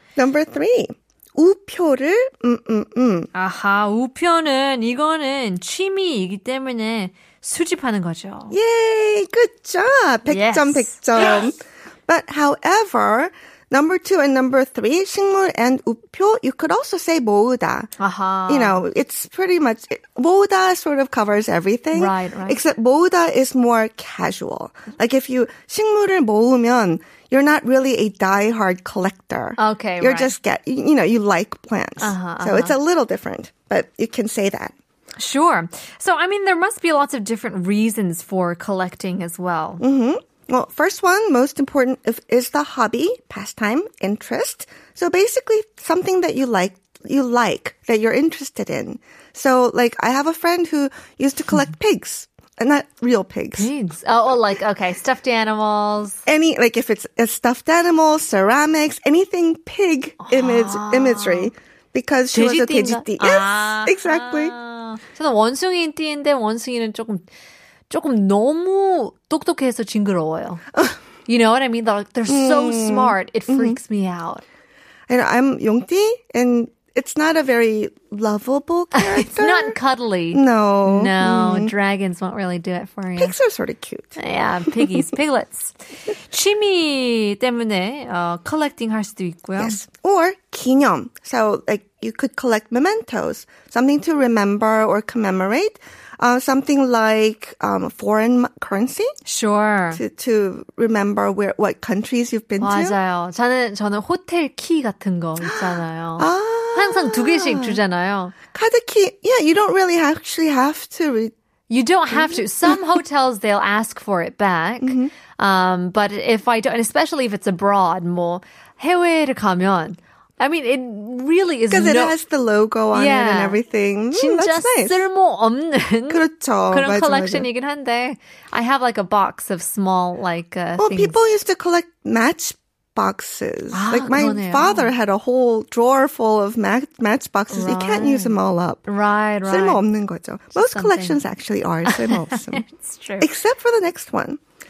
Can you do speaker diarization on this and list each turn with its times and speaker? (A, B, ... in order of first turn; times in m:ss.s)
0:00.2-0:03.3 A
0:03.3-0:08.6 B
0:08.5-0:17.9 A
0:10.3-0:11.5 B
0:18.0-0:18.8 B
0:18.5-0:34.7 A
0:21.9-0:22.6 B
0:29.6-0:30.3 B
0:32.0-0:32.8 B
0:35.2-0:39.8 B
0:39.8-0:53.7 A
0:53.5-0:56.2 B
0:56.2-1:04.5 A
1:00.2-1:01.5 B
1:02.3-1:07.2 B
1:07.9-1:10.6 B
1:11.2-1:14.4 B
1:12.3-1:13.8 A
1:15.1-1:19.8 A
1:18.9-1:23.4 B
1:20.3-1:21.7 A
1:23.2-1:24.2 A
1:24.2-1:25.8 B
1:26.3-1:29.8 B
1:29.6-1:39.1 A
1:39.2-1:40.0 B
1:39.9-1:43.0 A
1:42.6-1:48.4 B
1:45.4-1:47.8 A
1:48.5-1:51.3 A
1:51.7-2:02.2 B
1:52.1-1:52.8 A
1:54.8-1:55.1 A
2:01.7-2:05.0 A
2:02.9-2:03.6 B
2:04.1-2:11.2 B
2:06.1-2:07.5 A
2:10.8-2:18.8 A
2:13.7-2:14.9 B
2:17.5-2:19.8 B
2:19.4-2:22.6 A
2:20.5-2:21.2 B
2:21.8-2:23.3 B
2:23.2-2:24.4 A